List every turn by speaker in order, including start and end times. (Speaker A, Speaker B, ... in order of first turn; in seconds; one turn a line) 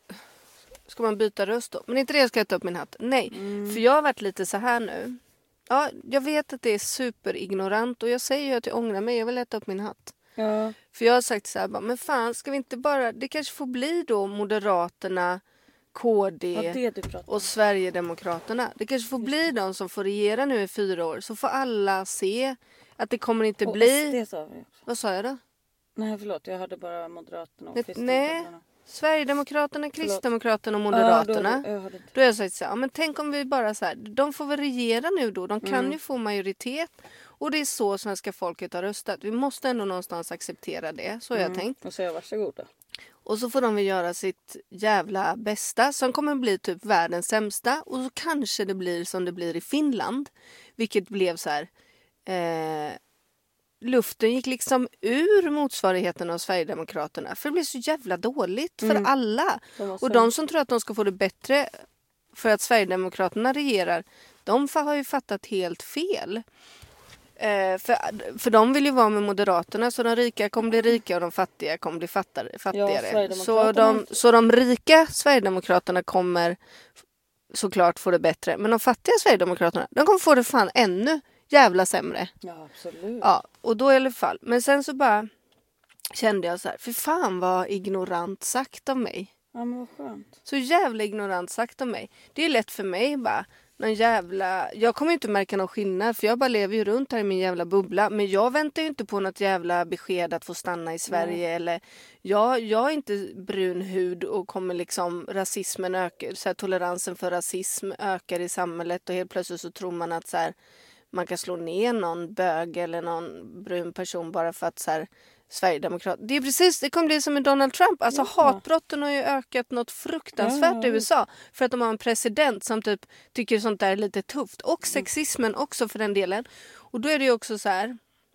Speaker A: 0.9-10.2
Speaker B: 3.3-3.8
Speaker B: 10.3-10.8
Speaker A: 10.9-15.4
Speaker A: 15.9-24.2
Speaker B: 16.5-17.4
Speaker B: 19.2-19.5
Speaker B: 23.6-24.7
Speaker A: 24.9-25.4
Speaker B: 25.9-28.6
Speaker A: 27.7-41.8
Speaker B: 30.9-32.1
Speaker B: 35.6-36.0
Speaker B: 41.3-42.7
Speaker A: 43.2-51.7
Speaker A: 52.2-53.0
Speaker A: 53.8-61.7
Speaker B: 58.8-59.1
Speaker B: 59.8-60.3
Speaker A: 62.3-66.4
Speaker A: 67.4-76.6
Speaker B: 72.7-74.2
Speaker A: 77.5-82.3
Speaker B: 82.4-83.3
Speaker A: 83.2-85.3
Speaker A: 86.1-89.3
Speaker B: 89.5-90.3
Speaker A: 90.4-110.5
Speaker B: 101.1-101.4
Speaker A: 111.1-128.0
Speaker B: 118.1-118.6
Speaker B: 120.4-121.0